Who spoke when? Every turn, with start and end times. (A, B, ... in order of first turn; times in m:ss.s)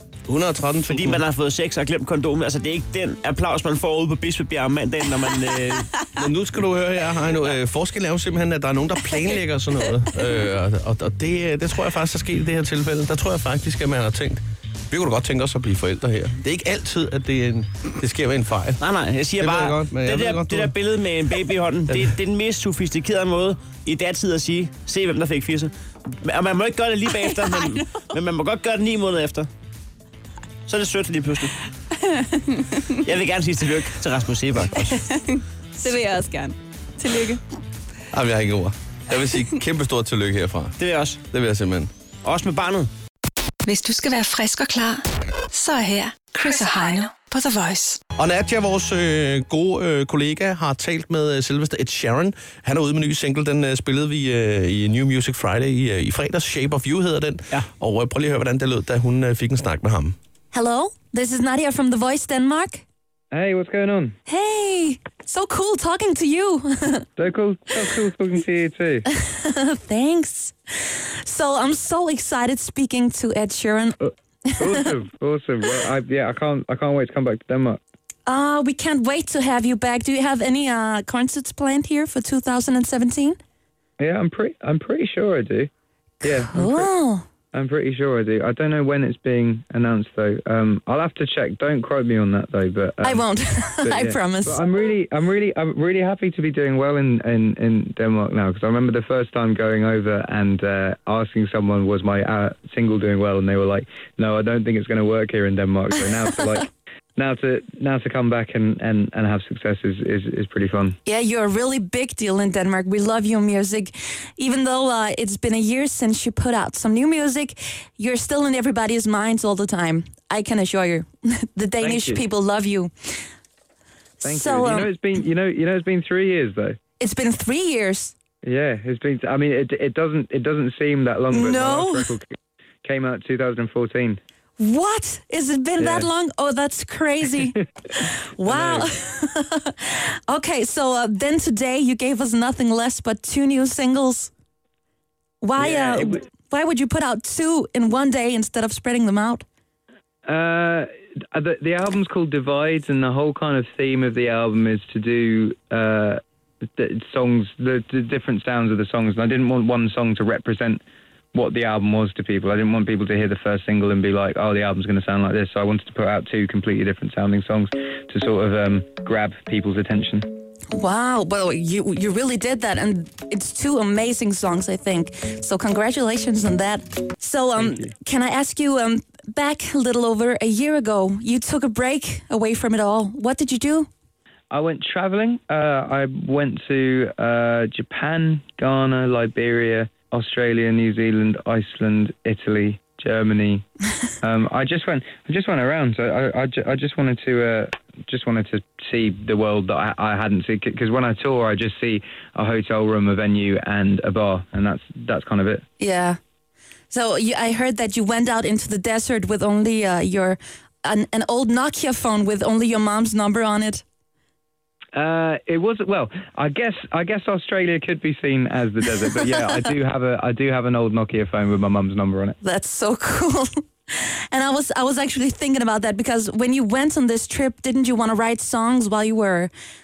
0:00.3-0:01.2 A
0:00.9-0:05.9 B
0:06.1-0:18.8 A
0:18.8-0:29.5 B
0:19.4-0:20.8 A
0:21.9-0:22.2 A
0:30.7-0:31.5 B
0:32.0-0:32.7 C
0:33.0-0:35.1 B
0:35.0-0:37.4 C
0:38.1-0:41.9 A
0:40.8-0:41.2 B
0:42.2-0:42.9 B
0:43.6-0:48.0 D
0:48.1-1:00.2 A
1:00.5-1:02.8 E
1:03.3-1:04.2 F
1:04.3-1:07.1 E
1:07.2-1:09.0 F
1:09.1-1:14.9 E
1:14.6-1:17.8 F
1:18.3-1:23.4 E
1:24.0-1:25.7 F
1:26.2-1:26.9 F
1:26.2-1:27.3 E
1:27.5-1:33.3 F
1:33.0-1:34.6 E
1:33.8-1:51.0 F
1:51.0-2:03.3 E
2:01.8-2:02.2 F
2:04.2-2:04.9 E
2:04.2-2:06.8 F
2:07.0-2:08.1 E
2:08.4-2:12.3 F
2:11.3-2:12.1 E
2:12.8-2:14.2 F
2:14.6-2:24.3 E
2:15.8-2:16.1 F
2:18.4-2:18.9 F
2:25.4-2:29.4 E
2:25.6-2:26.2 F
2:30.2-2:40.8 F
2:41.3-2:50.3 F
2:50.7-3:03.9 E
2:57.6-2:57.9 F
3:04.5-3:13.6 F
3:14.2-3:25.6 F
3:25.8-3:26.2 E
3:26.9-3:33.8 E
3:34.9-3:42.4 F
3:42.4-3:49.5 E